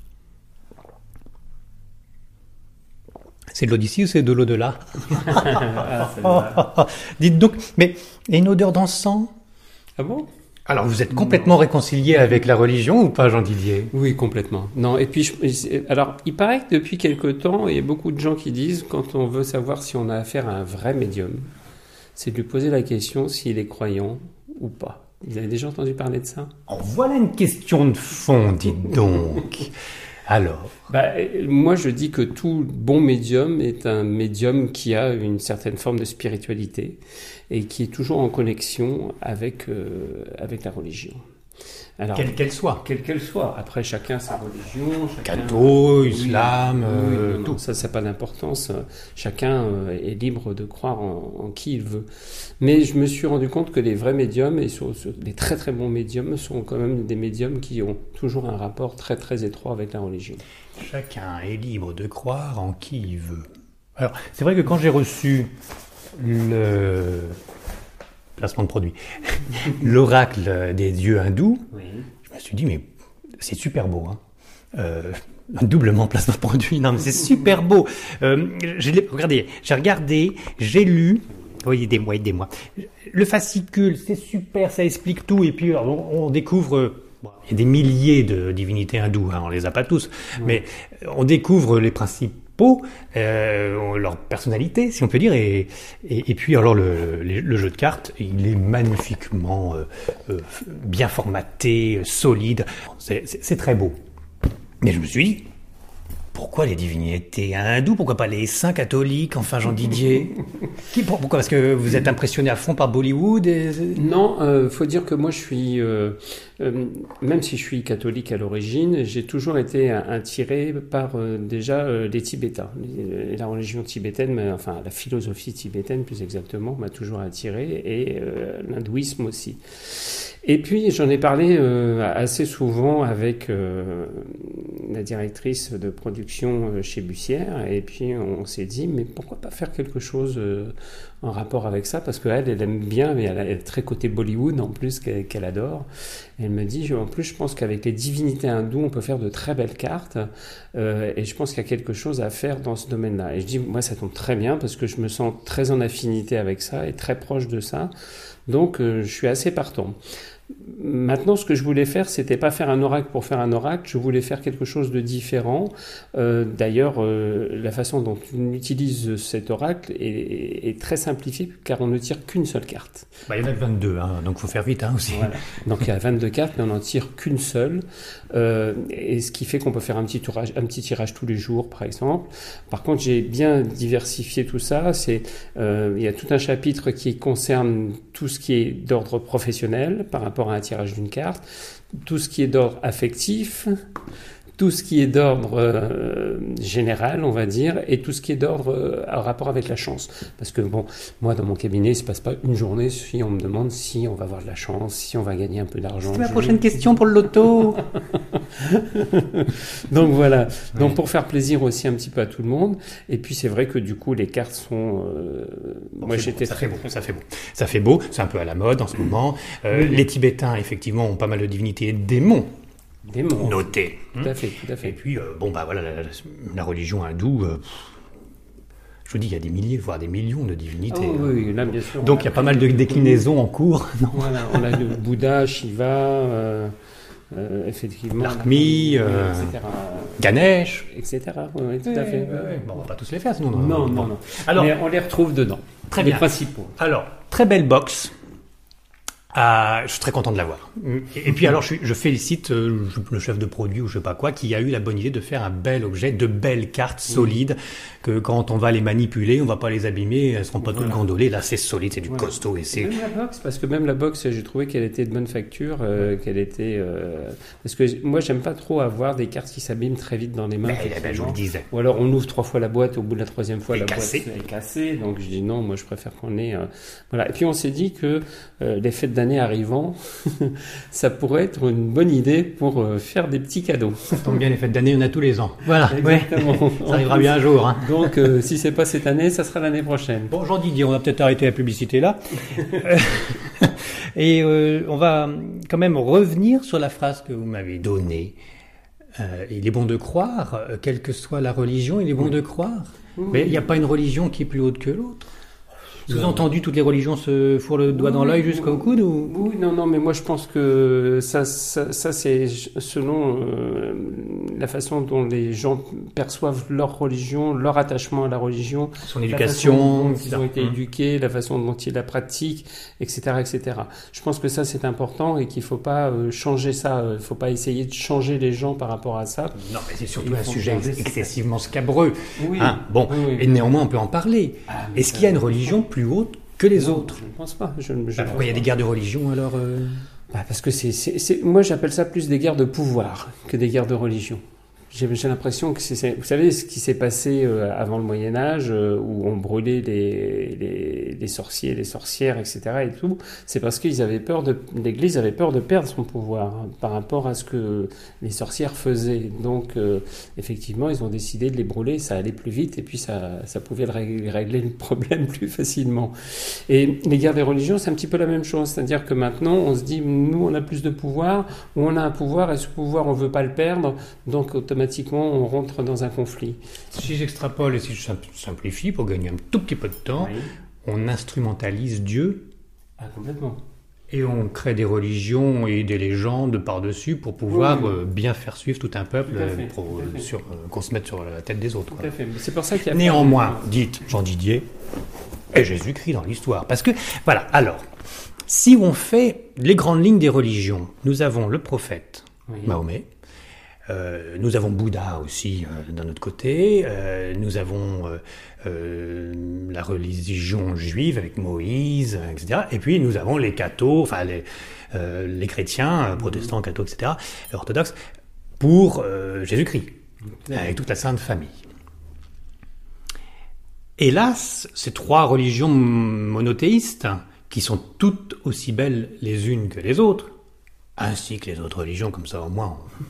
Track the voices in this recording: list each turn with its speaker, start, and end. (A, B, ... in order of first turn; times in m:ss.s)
0:03.5-0:09.3 A
0:05.1-0:06.6 B
0:10.0-0:10.3 B
0:10.7-0:13.9 A
0:11.2-0:11.5 B
0:13.9-0:21.5 B
0:22.2-0:26.5 B
0:26.7-0:29.7 A
0:30.3-0:30.9 A
0:30.9-0:37.0 B
0:37.5-0:41.2 B
0:42.0-0:52.1 B
0:42.2-0:42.8 A
0:45.2-0:47.6 A
0:52.6-1:00.4 B
1:00.8-1:05.5 A
1:06.2-1:07.4 A
1:08.4-1:11.6 A
1:11.7-1:12.1 B
1:12.2-1:12.9 A
1:13.4-1:14.2 A
1:14.7-1:44.0 A
1:44.8-1:45.5 A
1:46.3-1:54.0 A
1:53.9-2:25.9 B
2:26.4-2:37.9 B
2:38.5-2:40.0 B
2:40.5-2:53.1 B
2:53.3-2:55.4 A
2:55.1-3:11.4 B
3:11.9-3:13.8 B
3:14.6-3:26.8 B
3:26.1-3:27.8 A
3:27.8-3:36.8 B
3:36.0-3:42.5 A
3:43.0-3:45.0 B
3:43.4-3:47.9 A
3:49.0-3:51.3 A
3:50.9-3:53.2 B
3:52.0-3:54.8 A
3:54.1-3:56.7 B
3:57.3-4:00.3 B
3:58.2-3:59.6 A
4:00.2-4:00.9 A
4:00.9-4:02.6 B
4:01.8-4:04.7 A
4:03.5-4:06.8 B
4:05.9-4:08.1 A
4:09.3-4:22.9 A
4:20.6-4:21.0 B
4:22.1-4:44.4 B
4:30.6-4:31.7 A
4:33.7-4:34.3 A
4:44.1-4:48.1 A
4:45.7-4:50.3 B
4:50.3-4:58.4 A
4:59.2-5:05.3 A
5:03.2-5:03.6 B
5:06.1-5:06.4 B
5:06.1-5:09.3 A
5:07.9-5:29.6 B
5:19.0-5:20.8 A
5:29.6-5:37.2 A
5:30.2-5:31.3 B
5:32.4-5:33.5 B
5:34.7-5:35.8 B
5:36.8-5:38.7 B
5:38.2-5:40.0 A
5:40.3-6:16.6 B
6:16.9-6:22.5 A
6:20.2-6:20.5 B
6:23.0-6:23.6 B
6:24.1-6:32.1 A
6:27.5-6:28.0 B
6:29.2-6:30.3 B
6:31.9-6:33.7 B
6:32.9-6:34.7 A
6:35.5-6:37.9 A
6:38.5-6:43.1 A
6:42.5-6:42.8 B
6:43.9-6:58.0 A
6:58.6-6:59.9 A
7:00.4-7:00.8 B
7:00.5-7:01.6 A
7:04.0-7:10.3 A
7:11.0-7:12.9 A